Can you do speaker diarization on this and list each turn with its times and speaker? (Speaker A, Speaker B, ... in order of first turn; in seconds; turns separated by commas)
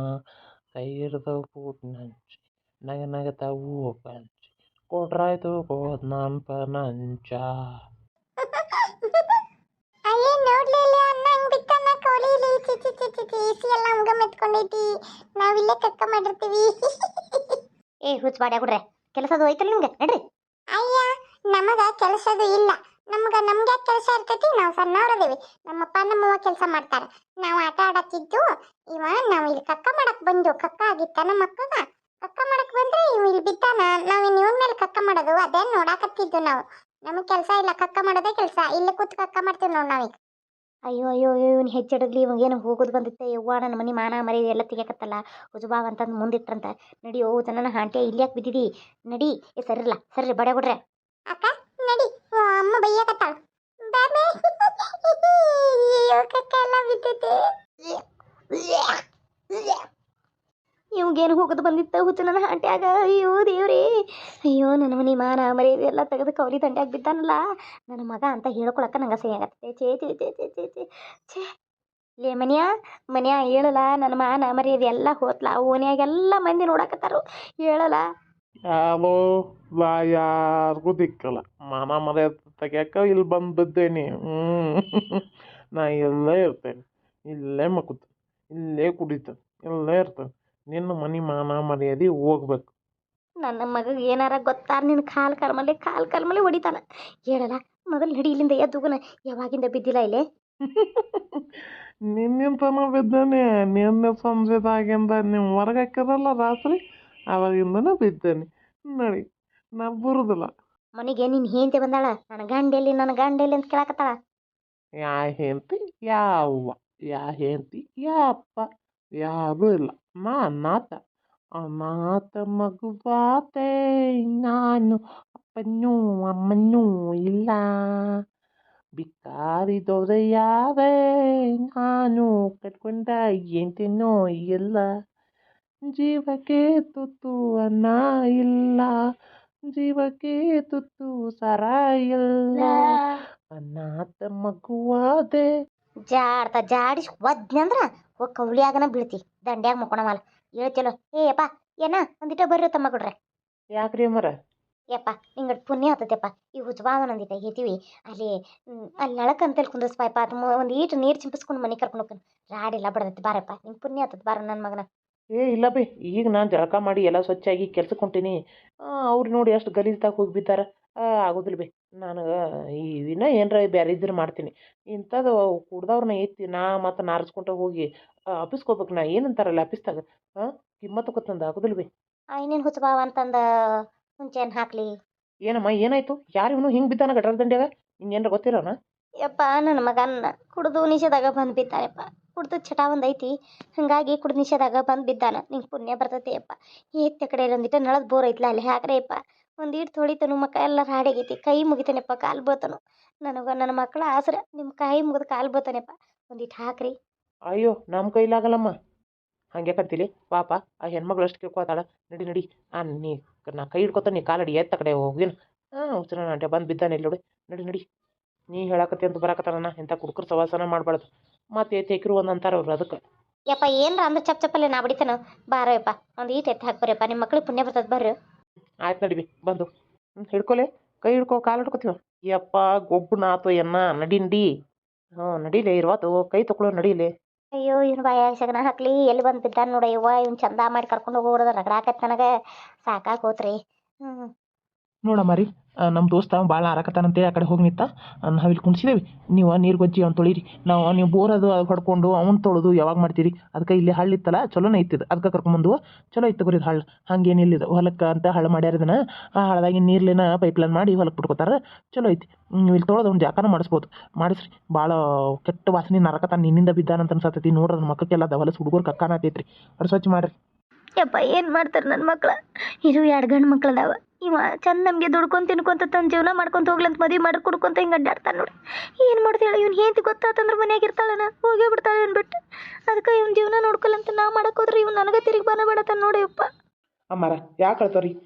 Speaker A: 0.8-7.5, Speaker B: 10.1-17.6, Speaker C: 18.1-20.2, Speaker B: 20.7-40.1, Speaker C: 40.9-50.8, Speaker B: 51.3-53.4, Speaker B: 53.9-54.3, Speaker B: 55.0-57.2, Speaker C: 58.5-59.0, Speaker C: 59.5-59.8, Speaker C: 60.9-63.9, Speaker C: 64.5-71.5, Speaker C: 72.2-78.0, Speaker A: 78.7-79.2, Speaker A: 79.8-85.2, Speaker A: 85.7-92.7, Speaker C: 93.4-100.2, Speaker A: 100.6-101.4, Speaker A: 102.1-106.8, Speaker A: 107.3-109.2, Speaker A: 109.8-110.5, Speaker C: 111.0-114.2, Speaker A: 115.0-118.7, Speaker A: 119.2-121.0, Speaker A: 121.6-123.7, Speaker A: 124.4-127.6, Speaker A: 129.0-130.9, Speaker A: 131.7-134.9, Speaker A: 135.9-138.9, Speaker A: 139.7-142.8, Speaker A: 143.5-145.5, Speaker C: 146.1-153.1, Speaker A: 153.8-154.3, Speaker C: 154.9-164.8, Speaker A: 165.4-168.3, Speaker A: 169.1-170.6, Speaker A: 171.2-172.3, Speaker A: 172.8-177.8, Speaker A: 178.4-180.0, Speaker A: 180.8-181.9, Speaker C: 182.3-183.4, Speaker C: 184.2-184.9, Speaker A: 185.5-188.7, Speaker C: 189.2-206.9, Speaker A: 207.5-208.7, Speaker A: 209.5-217.8, Speaker A: 218.5-223.0, Speaker C: 223.5-228.1, Speaker A: 228.8-229.7, Speaker A: 230.3-234.5, Speaker A: 235.2-237.1, Speaker C: 237.5-242.3, Speaker C: 242.8-244.3, Speaker A: 245.0-270.3, Speaker C: 271.0-282.4, Speaker C: 282.9-286.5, Speaker A: 287.1-288.1